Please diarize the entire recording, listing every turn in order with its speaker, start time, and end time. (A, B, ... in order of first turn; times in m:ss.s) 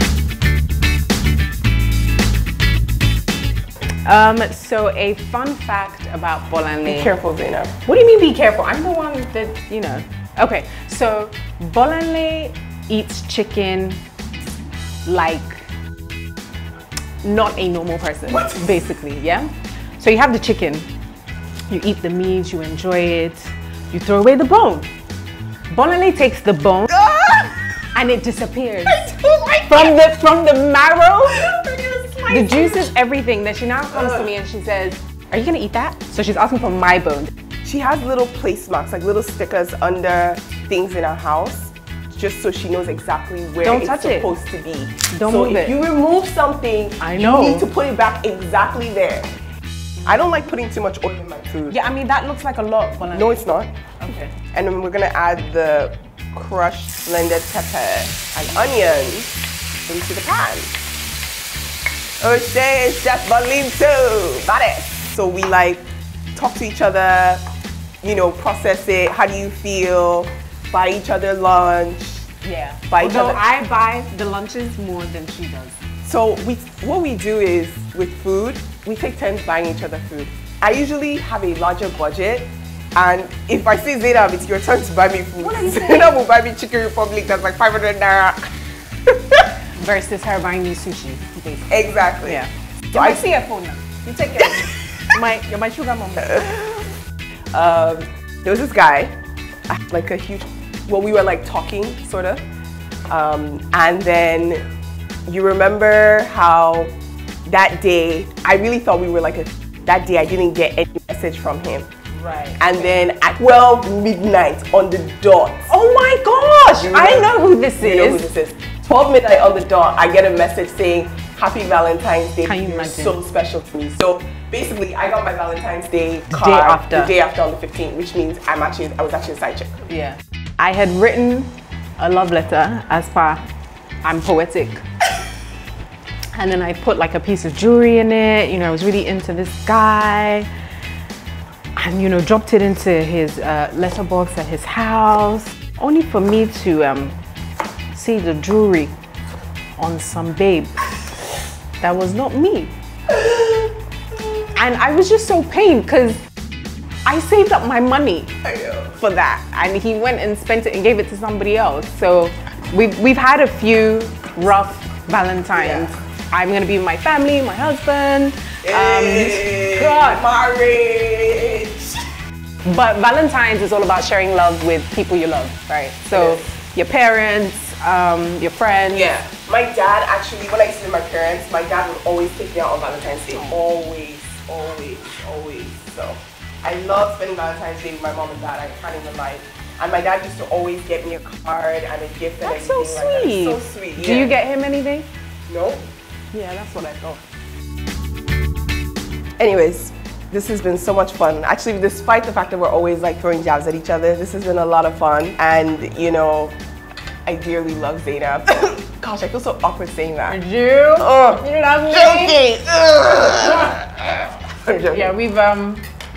0:04.0-0:07.1 A
0:06.8-0:07.8 B
0:07.8-0:14.0 A
0:15.0-0:15.7 A
0:17.2-0:20.9 A
0:18.3-0:18.8 B
0:21.7-0:24.9 A
0:25.7-0:27.0 A
0:26.9-0:27.8 B
0:27.9-0:29.1 A
0:28.9-0:30.0 B
0:29.7-0:31.4 A
0:31.3-0:32.9 B
0:32.3-0:37.3 A
0:33.9-0:34.3 B
0:37.6-0:49.3 B
0:43.6-0:44.3 A
0:45.1-0:45.8 A
0:47.0-0:47.7 A
0:50.0-0:51.8 B
0:51.7-0:54.3 A
0:53.1-0:53.7 B
0:54.5-0:59.4 B
0:59.9-1:00.7 B
1:02.2-1:07.4 B
1:08.0-1:12.3 B
1:12.4-1:15.8 A
1:12.9-1:13.4 B
1:16.0-1:28.4 B
1:25.4-1:26.2 A
1:29.1-1:29.4 B
1:29.8-1:36.6 A
1:31.7-1:33.3 B
1:34.4-1:35.0 B
1:36.2-1:36.9 B
1:37.5-1:39.1 B
1:39.7-1:42.4 B
1:43.1-1:44.6 B
1:45.3-1:46.9 B
1:47.5-1:51.9 B
1:52.2-1:52.9 A
1:52.6-1:55.7 B
1:55.7-1:58.2 A
1:56.7-2:09.8 B
2:02.4-2:03.2 A
2:06.3-2:07.1 A
2:09.9-2:13.4 A
2:14.0-2:14.8 A
2:16.3-2:20.5 A
2:21.8-2:27.2 A
2:27.9-2:28.9 A
2:29.8-2:30.9 A
2:31.8-2:32.7 A
2:33.1-2:33.7 B
2:34.6-2:36.2 A
2:37.1-2:38.3 A
2:38.4-2:39.0 B
2:39.0-2:50.2 A
2:45.5-2:45.9 B
2:48.6-2:52.1 B
2:52.7-2:59.2 A
2:56.1-2:56.4 B
2:58.9-3:14.4 B
3:03.3-3:03.6 A
3:12.4-3:15.1 A
3:15.5-3:15.9 B
3:16.3-3:17.2 A
3:19.4-3:26.6 B
3:27.3-3:30.4 B
3:30.3-3:32.4 A
3:31.0-3:35.1 B
3:33.3-3:33.8 A
3:34.6-3:35.8 A